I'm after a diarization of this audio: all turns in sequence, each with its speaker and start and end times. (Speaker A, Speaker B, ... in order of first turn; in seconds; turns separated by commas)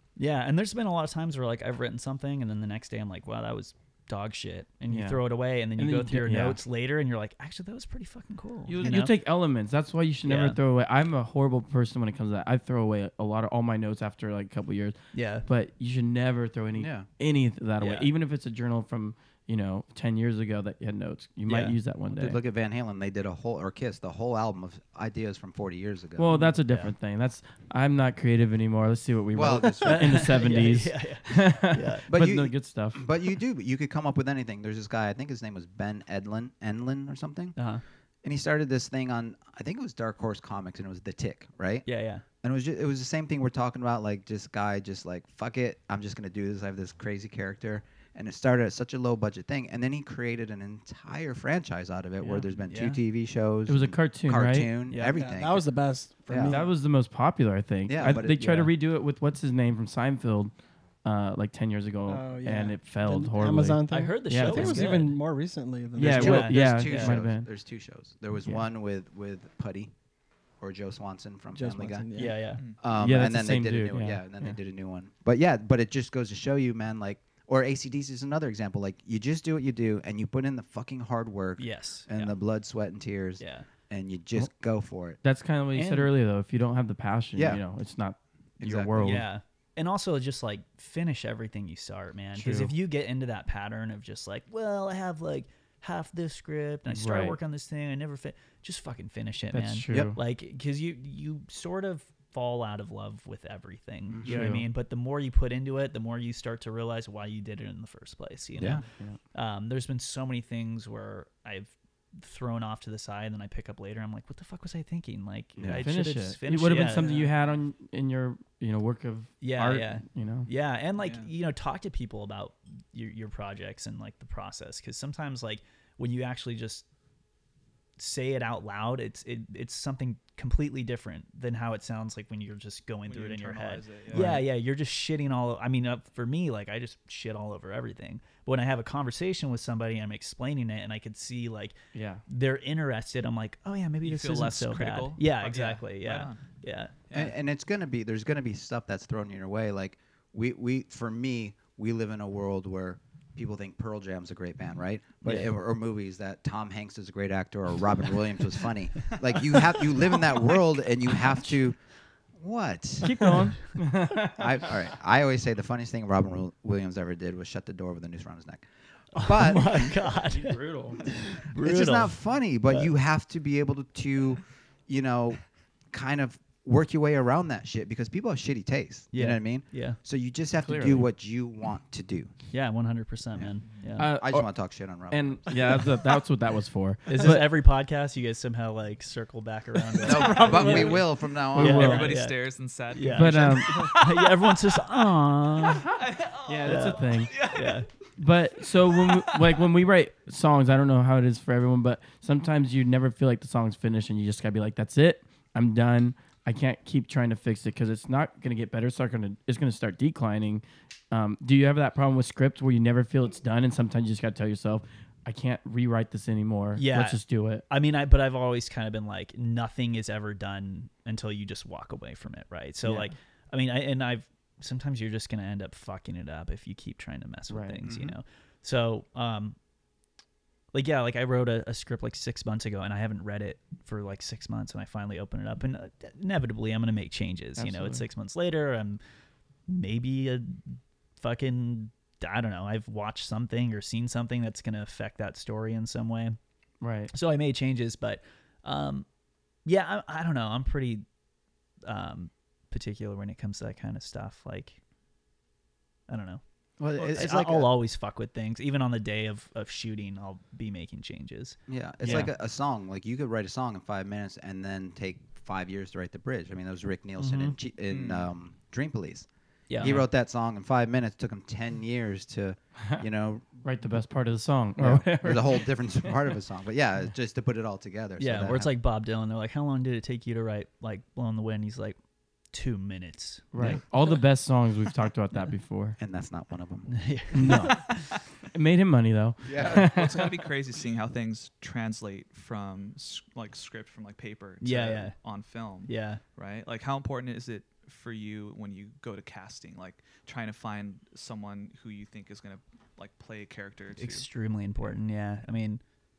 Speaker A: 0.2-9.1, Speaker B: 4.9-6.6, Speaker B: 8.7-22.4, Speaker A: 10.2-10.6, Speaker A: 15.1-15.5, Speaker C: 16.8-17.1, Speaker A: 17.8-18.1, Speaker A: 21.5-21.8, Speaker C: 22.1-26.4, Speaker B: 26.2-33.1, Speaker A: 26.3-26.9, Speaker C: 29.3-30.4, Speaker A: 29.9-32.1, Speaker C: 32.1-37.6, Speaker A: 37.6-37.8, Speaker C: 38.2-41.9, Speaker A: 41.9-42.2, Speaker C: 42.4-55.6, Speaker A: 52.2-53.0, Speaker B: 53.7-54.8, Speaker A: 54.9-55.2, Speaker D: 55.0-56.7, Speaker C: 56.3-56.6, Speaker B: 56.5-60.5, Speaker C: 57.9-58.5, Speaker A: 58.1-58.7, Speaker B: 61.0-65.1, Speaker D: 62.1-66.4, Speaker A: 63.9-65.2, Speaker B: 66.0-67.5, Speaker C: 66.0-69.9, Speaker A: 66.0-67.2, Speaker C: 70.6-72.1, Speaker D: 71.5-72.4, Speaker A: 72.2-72.6, Speaker C: 72.8-85.2, Speaker B: 72.9-74.5, Speaker A: 81.6-82.3, Speaker A: 83.4-83.7, Speaker B: 85.2-89.3, Speaker A: 85.7-86.1, Speaker C: 87.4-87.6, Speaker C: 88.6-89.2, Speaker A: 89.0-117.3, Speaker B: 92.3-92.7, Speaker B: 96.9-97.4, Speaker B: 99.5-100.2, Speaker C: 104.1-104.4, Speaker B: 104.2-104.7, Speaker B: 108.9-109.2, Speaker C: 115.6-115.9, Speaker B: 115.8-120.5, Speaker A: 119.4-126.9, Speaker E: 121.0-121.3, Speaker A: 128.0-146.9, Speaker E: 133.1-134.4, Speaker B: 134.1-134.4, Speaker B: 141.9-142.2, Speaker E: 144.0-146.4, Speaker C: 147.1-161.8, Speaker A: 155.2-155.5, Speaker C: 162.4-163.3, Speaker B: 163.0-164.6, Speaker C: 164.3-170.0, Speaker A: 169.1-172.9, Speaker B: 170.2-171.1, Speaker C: 171.4-175.4, Speaker C: 175.9-182.3, Speaker A: 179.1-180.0, Speaker B: 180.6-181.1, Speaker A: 182.5-184.1, Speaker B: 184.0-184.5, Speaker C: 184.2-185.6, Speaker B: 185.1-187.5, Speaker A: 187.1-192.4, Speaker C: 190.0-192.0, Speaker E: 190.3-191.0, Speaker B: 190.5-191.0, Speaker B: 191.6-192.2, Speaker E: 191.7-195.0, Speaker A: 192.9-195.9, Speaker B: 193.1-193.9, Speaker E: 195.5-197.8, Speaker B: 196.5-197.5, Speaker A: 196.7-197.9, Speaker B: 198.2-217.6, Speaker E: 198.7-199.7, Speaker A: 216.8-229.6, Speaker B: 222.8-223.1, Speaker B: 227.5-227.8, Speaker C: 227.9-228.2, Speaker A: 230.7-239.0, Speaker B: 237.6-238.1, Speaker A: 239.7-246.4, Speaker B: 246.8-247.1, Speaker A: 247.1-249.1, Speaker A: 249.7-251.1, Speaker A: 251.8-254.8, Speaker A: 256.1-256.4, Speaker C: 256.8-257.7, Speaker A: 257.0-262.3, Speaker C: 261.7-269.3, Speaker A: 267.2-267.6, Speaker E: 267.9-268.3, Speaker A: 269.7-270.1, Speaker C: 269.8-273.6, Speaker B: 273.6-276.1, Speaker C: 274.8-278.7, Speaker A: 278.2-282.0, Speaker A: 282.5-283.8, Speaker B: 283.5-286.0, Speaker C: 286.0-287.0, Speaker A: 286.9-288.1, Speaker B: 287.3-288.0, Speaker B: 288.5-290.4, Speaker C: 289.5-289.9, Speaker E: 289.5-304.3, Speaker A: 294.6-295.1, Speaker A: 295.9-296.2, Speaker A: 304.0-305.8